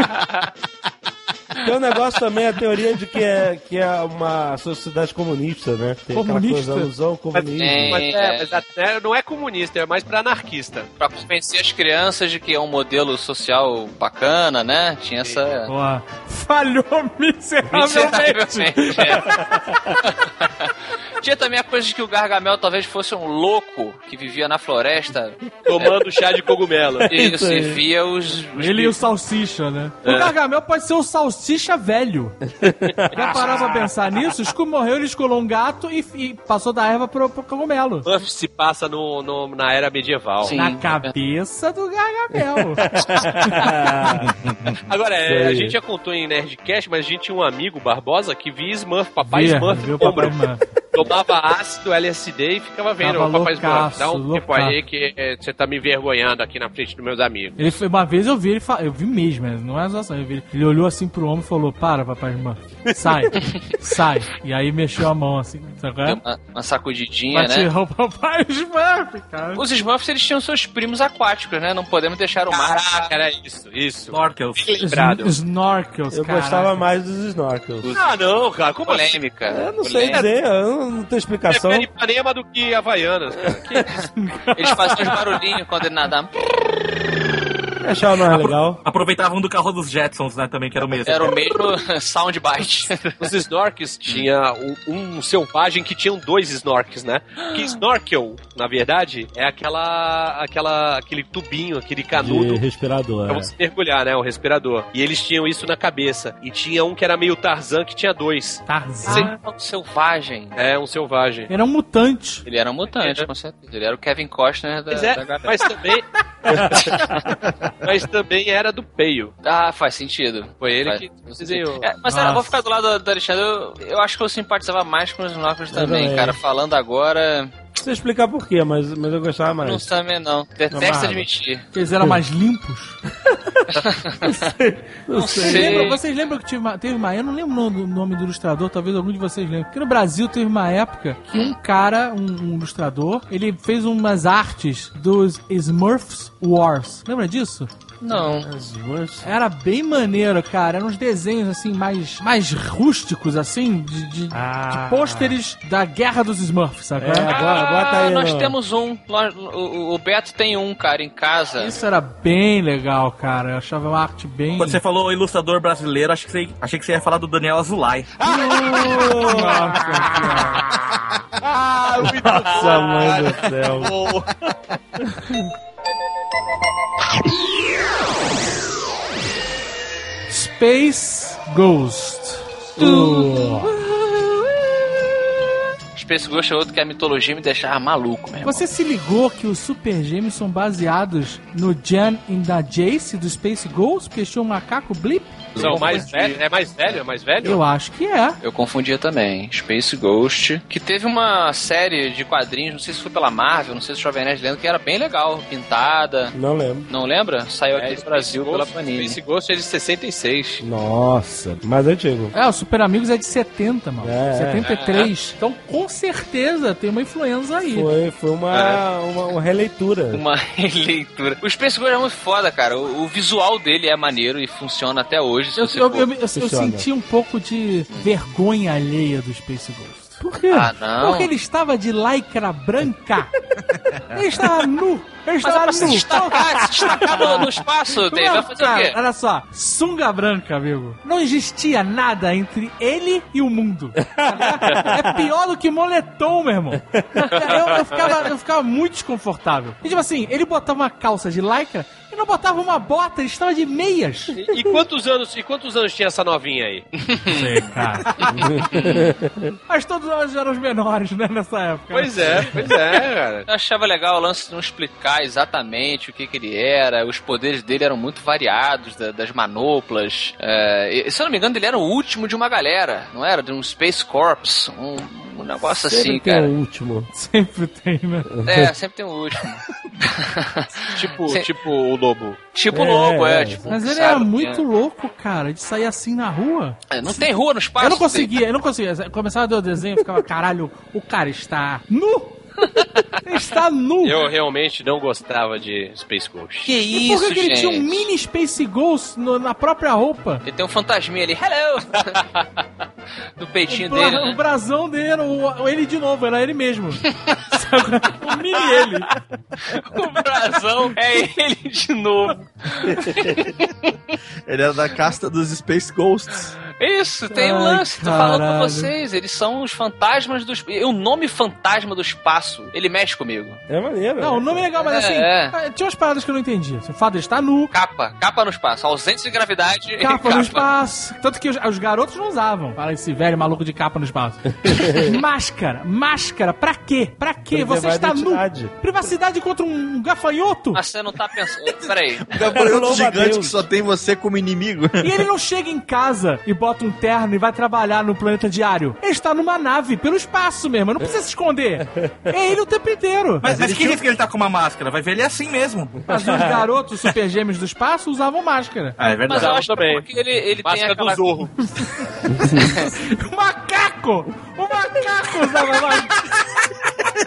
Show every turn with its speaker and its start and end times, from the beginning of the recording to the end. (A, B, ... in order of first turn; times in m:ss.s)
0:01.6-0:08.0 A
0:06.1-0:06.9 B
0:07.3-0:10.9 C
0:07.6-0:08.6 D
0:11.0-0:15.7 D
0:15.7-0:19.4 B
0:17.7-0:19.4 D
0:19.7-0:19.9 A
0:20.1-0:26.0 D
0:25.7-0:27.2 C
0:27.0-0:27.8 A
0:27.1-0:28.9 D
0:28.6-0:32.4 B
0:30.0-0:30.3 C
0:32.6-0:33.1 A
0:33.1-0:38.1 B
0:33.2-0:33.7 C
0:33.3-0:33.8 D
0:38.0-0:40.6 C
0:40.4-0:41.1 D
0:40.5-0:43.8 B
0:42.4-0:44.3 A
0:44.2-0:44.8 E
0:44.9-0:50.4 C
0:45.2-0:45.8 A
0:49.2-0:50.6 B
0:50.9-0:57.6 C
0:53.0-0:54.8 B
0:57.6-1:06.2 B
1:06.0-1:07.7 D
1:07.3-1:09.6 B
1:09.6-1:13.1 D
1:12.5-1:15.4 C
1:14.1-1:14.8 F
1:14.8-1:16.8 B
1:16.1-1:17.9 A
1:17.9-1:19.2 C
1:18.8-1:20.2 D
1:19.5-1:21.9 A
1:21.5-1:23.9 C
1:24.1-1:25.2 B
1:24.6-1:26.3 D
1:27.8-1:28.8 A
1:28.3-1:31.5 F
1:31.0-1:33.2 D
1:33.2-1:42.6 C
1:37.4-1:37.8 D
1:42.1-1:43.5 A
1:43.3-1:49.3 C
1:48.7-1:49.3 B
1:49.1-1:50.6 D
1:50.6-1:51.5 C
1:51.5-1:52.4 B
1:52.4-1:55.7 D
1:53.0-1:53.3 C
1:54.9-1:57.1 C
1:56.5-1:56.9 A
1:57.8-1:59.3 C
1:59.4-2:07.6 D
2:00.6-2:01.9 C
2:02.1-2:02.5 B
2:05.7-2:06.4 A
2:07.8-2:09.9 A
2:09.6-2:11.6 D
2:10.7-2:11.3 A
2:11.7-2:13.0 B
2:13.2-2:13.6 A
2:13.7-2:14.5 D
2:14.2-2:15.9 A
2:15.2-2:16.0 D
2:15.4-2:27.7 B
2:28.0-2:28.5 D
2:28.1-2:29.3 A
2:29.2-2:37.3 B
2:34.3-2:35.4 A
2:37.0-2:38.6 A
2:37.2-2:41.8 D
2:41.6-2:44.8 B
2:44.6-2:48.2 F
2:48.2-2:50.4 A
2:48.9-2:50.6 B
2:51.7-2:54.2 C
2:52.0-2:53.9 A
2:55.1-2:55.4 A
3:00.3-3:03.7 B
3:02.8-3:03.6 A
3:06.0-3:08.6 D
3:08.4-3:16.3 B
3:15.6-3:17.6 C
3:17.4-3:18.4 B
3:18.4-3:26.3 D
3:26.3-3:26.9 A
3:26.9-3:29.2 D
3:27.7-3:30.6 C
3:30.6-3:32.3 A
3:32.3-3:37.9 B
3:34.0-3:34.6 A
3:34.6-3:35.1 D
3:37.7-3:40.2 A
3:40.1-3:46.1 D
3:45.6-3:53.3 B
3:46.3-3:46.9 A
3:50.5-3:51.3 D
3:54.1-4:14.4 B
3:55.4-3:59.0 D
3:56.8-3:57.3 A
4:04.1-4:05.1 A
4:06.9-4:07.4 A
4:14.3-4:16.9 C
4:17.1-4:17.7 D
4:17.3-4:18.9 B
4:18.4-4:19.5 A
4:18.8-4:19.1 D
4:19.7-4:22.7 B
4:21.9-4:23.5 C
4:23.5-4:36.5 D
4:35.7-4:37.1 A
4:37.1-4:38.3 B
4:38.3-4:38.7 A
4:38.5-4:41.5 D
4:41.0-4:42.4 C
4:42.5-4:44.6 D
4:42.7-4:43.6 A
4:43.7-4:47.2 B
4:46.9-4:48.3 D
4:47.8-4:52.5 B
4:52.8-4:53.1 D
4:53.2-4:54.2 B
4:54.0-4:56.7 C
4:56.7-4:58.1 D
4:56.7-5:00.4 B
5:00.4-5:02.5 D
5:03.4-5:04.4 D
5:03.7-5:09.1 B
5:08.5-5:09.0 D
5:09.7-5:14.0 D
5:14.5-5:16.5 E
5:16.7-5:23.6 D
5:17.3-5:18.9 B
5:23.7-5:24.6 A
5:24.2-5:27.7 B
5:24.8-5:25.6 D
5:27.7-5:30.7 D
5:30.0-5:40.8 B
5:34.6-5:35.2 A
5:37.5-5:39.0 A
5:40.7-5:42.4 D
5:41.8-5:45.2 E
5:42.4-5:43.6 A
5:45.0-5:53.5 B
5:53.4-5:56.0 F
5:53.6-5:53.9 A
5:56.1-5:59.0 B
5:56.3-5:56.6 A
5:59.0-5:59.6 F
5:59.3-6:01.4 D
5:59.3-6:00.1 C
6:00.6-6:01.5 C
6:02.7-6:06.3 B